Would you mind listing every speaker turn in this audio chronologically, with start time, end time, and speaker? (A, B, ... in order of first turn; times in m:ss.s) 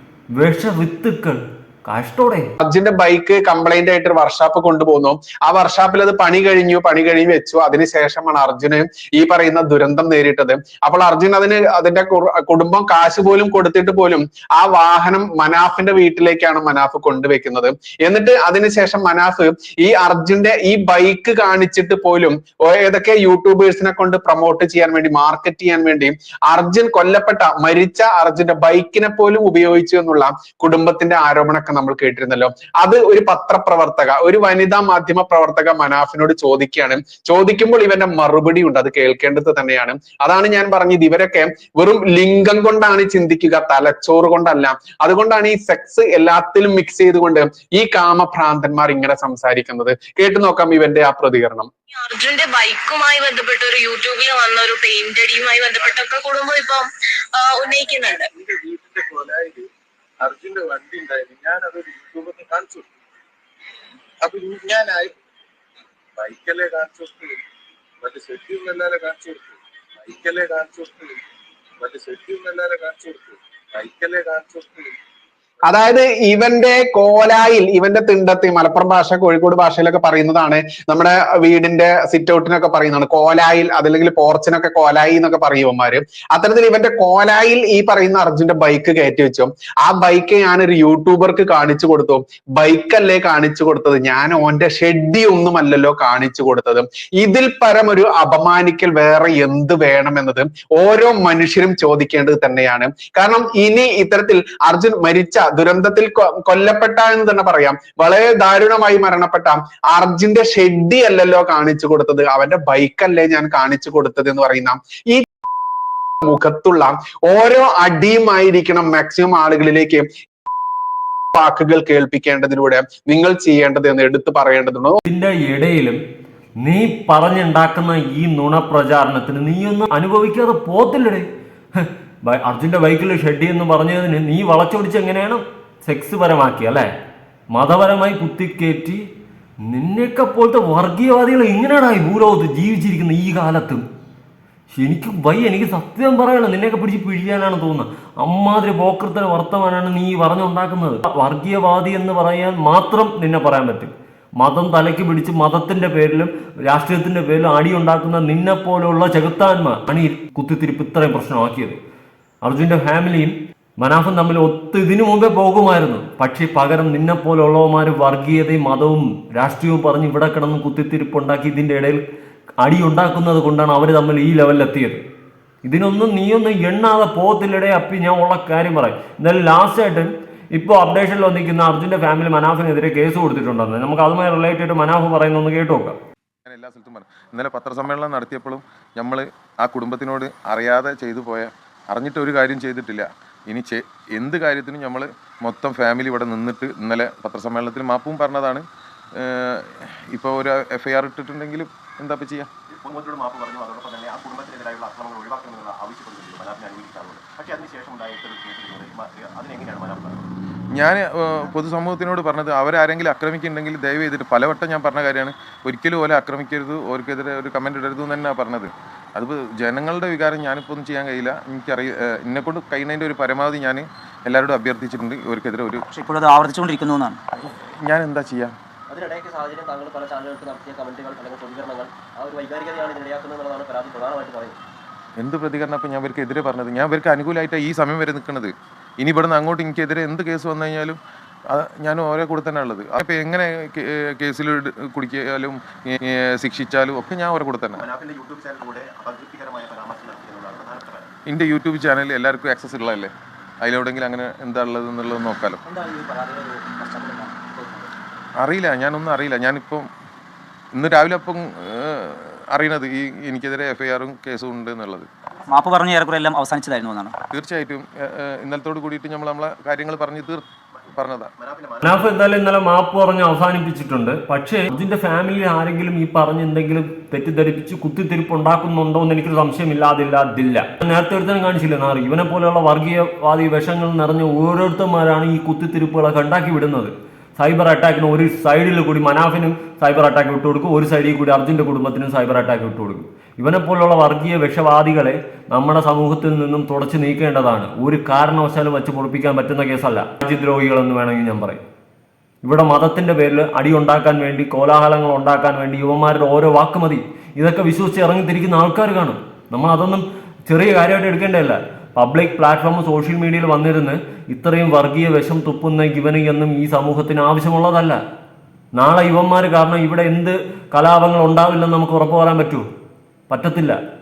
0:00.4-0:02.5 A
0:02.6-0:51.7 B
0:51.9-0:58.3 C
0:57.6-0:59.7 D
1:00.2-1:02.9 D
1:04.2-1:05.1 D
1:06.2-1:07.3 D
1:08.0-1:11.2 D
1:11.8-1:14.9 D
1:15.7-1:55.2 B
1:56.2-2:00.1 B
2:01.3-2:05.0 B
2:05.0-2:06.0 A
2:06.6-2:11.2 A
2:11.8-2:16.9 A
2:17.5-2:19.0 A
2:19.6-2:23.8 A
2:24.7-2:41.8 A
2:42.4-2:52.0 A
2:52.6-2:55.0 A
2:55.6-3:06.0 A
3:06.5-3:18.6 E
3:20.2-3:22.4 E
3:22.7-3:30.3 F
3:31.5-3:45.8 E
3:45.9-3:47.2 G
3:47.9-3:48.5 E
3:48.9-3:54.6 F
3:55.2-3:58.5 E
3:59.0-4:00.9 E
4:01.9-4:03.4 E
4:04.2-4:05.5 E
4:06.4-4:07.8 E
4:07.8-4:11.1 F
4:11.3-4:13.0 E
4:13.7-4:15.5 E
4:15.6-4:17.9 F
4:18.5-4:19.8 E
4:20.9-4:21.4 E
4:21.9-4:25.0 E
4:25.5-4:27.2 G
4:27.4-4:27.8 E
4:28.5-4:30.4 E
4:30.7-4:32.0 F
4:31.8-5:01.6 A
5:02.4-5:18.0 A
5:18.7-5:22.6 A
5:23.3-5:23.8 A